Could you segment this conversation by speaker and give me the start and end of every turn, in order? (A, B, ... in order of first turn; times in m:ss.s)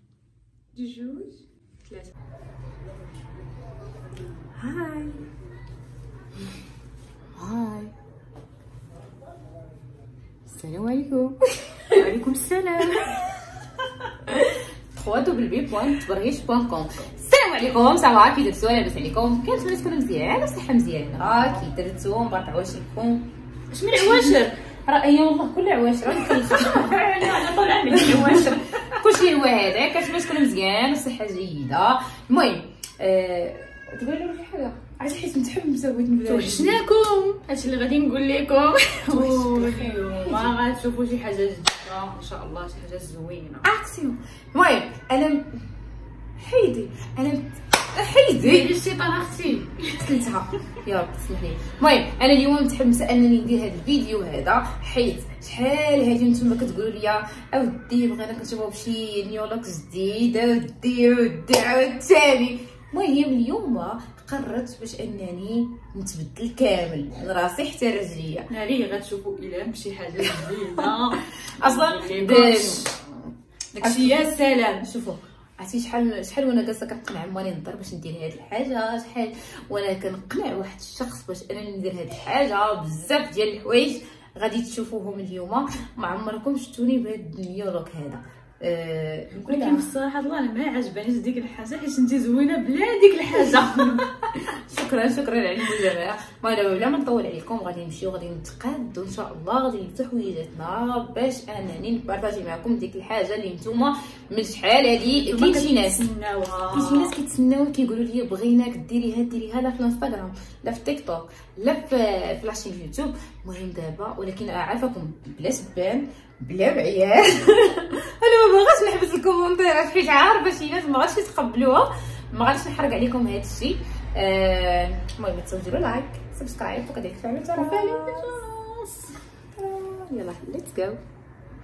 0:00.7-0:02.1 A
0:04.6-0:05.2 A
0:07.4-0:07.9 A
0:10.5-0:13.2 A
0:14.9-0:23.3 A
0:23.7-0:24.5 B
0:24.0-0:36.8 A
0:26.2-0:29.0 B
0:36.2-0:43.6 B
0:39.1-0:40.4 A
0:43.6-0:45.5 A
0:46.4-0:48.7 A
0:48.4-0:49.8 B
0:49.8-1:08.5 A
1:08.5-1:13.0 B
1:10.3-1:10.9 A
1:11.6-1:13.1 A
1:13.8-1:14.9 B
1:13.8-1:29.9 A
1:29.3-1:34.0 B
1:33.4-1:46.0 A
1:45.0-1:47.1 B
1:46.7-2:08.4 A
2:07.5-2:09.2 B
2:09.6-2:11.0 A